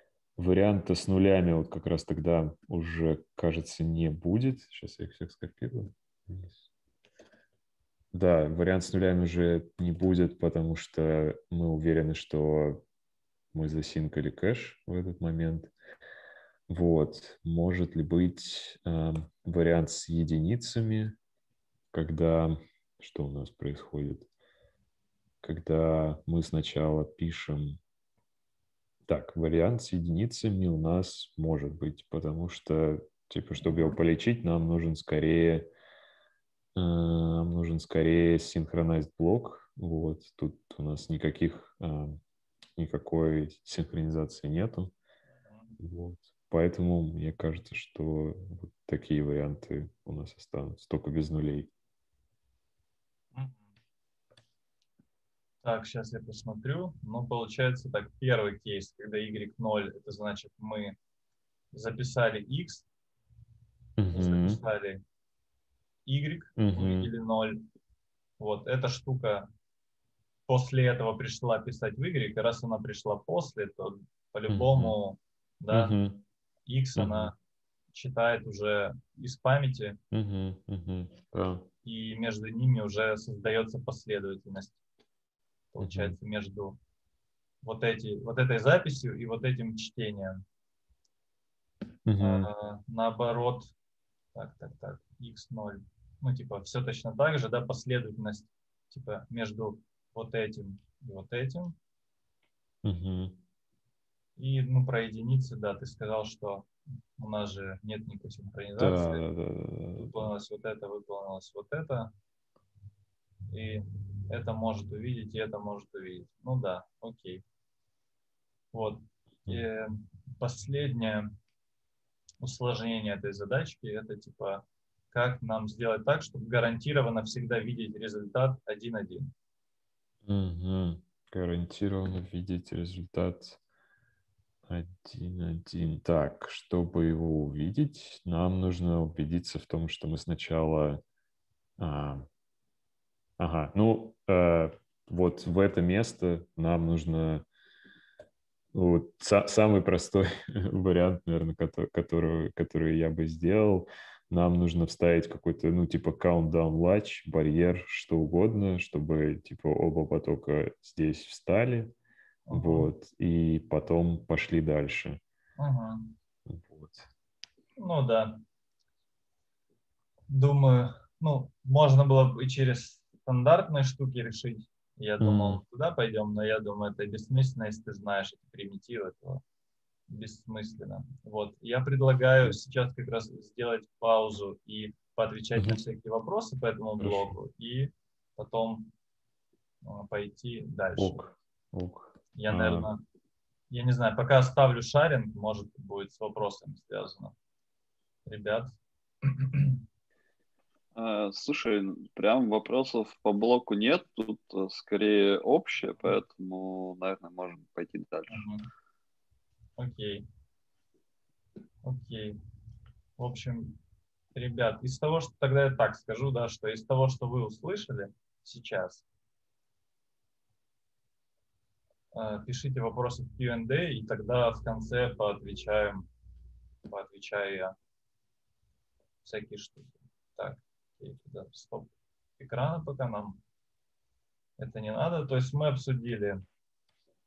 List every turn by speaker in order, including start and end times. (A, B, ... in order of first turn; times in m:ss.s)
0:00.4-0:06.6 A
0:08.1-0:12.8 A
0:13.5-0:15.7 A
0:16.7-0:21.2 A
0:21.9-0:24.3 A
0:25.4-0:27.8 A
0:29.1-0:35.7 A
0:36.8-0:42.2 A
0:42.8-0:44.9 A
0:45.5-0:45.8 B
0:45.8-0:51.7 A
0:53.4-0:53.7 B
0:55.6-1:01.0 B
1:01.7-1:02.8 B
1:04.0-1:04.6 A
1:04.1-1:05.0 B
1:06.1-1:07.6 B
1:06.6-1:07.1 A
1:08.4-1:09.5 B
1:10.5-1:16.0 B
1:14.5-1:15.0 A
1:15.7-1:16.2 A
1:16.7-1:17.4 B
1:17.0-1:17.3 A
1:17.9-1:20.0 B
1:20.1-1:21.7 A
1:21.8-1:24.8 B
1:25.7-1:26.8 B
1:25.8-1:26.2 A
1:27.6-1:30.4 B
1:32.1-1:32.5 A
1:32.2-1:33.7 B
1:34.4-1:41.8 B
1:42.8-1:43.4 A
1:44.4-1:49.2 B
1:48.8-1:50.3 A
1:50.0-1:52.1 B
1:53.5-1:57.4 B
1:58.7-2:01.3 B
2:02.4-2:09.3 B
2:10.2-2:13.6 A
2:14.7-2:21.0 A
2:21.8-2:22.3 A
2:23.4-2:27.4 A
2:28.7-2:41.9 A
2:42.5-2:42.9 B
2:42.5-2:45.2 A
2:45.6-2:46.2 B
2:46.5-2:47.1 A
2:47.8-2:48.4 B
2:50.3-2:59.4 B
2:55.2-2:55.6 A
3:00.1-3:08.9 B
3:07.0-3:07.4 A
3:09.8-3:11.2 B
3:11.0-3:12.9 A
3:12.4-3:13.0 B
3:13.7-3:17.3 B
3:18.3-3:19.8 B
3:21.0-3:28.4 C
3:28.3-3:28.6 B
3:29.8-3:30.3 B
3:31.8-3:32.4 B
3:33.2-3:33.8 B
3:34.4-3:39.0 B
3:42.1-3:46.1 B
3:46.9-3:47.7 B
3:49.2-3:53.4 B
3:54.6-3:56.4 B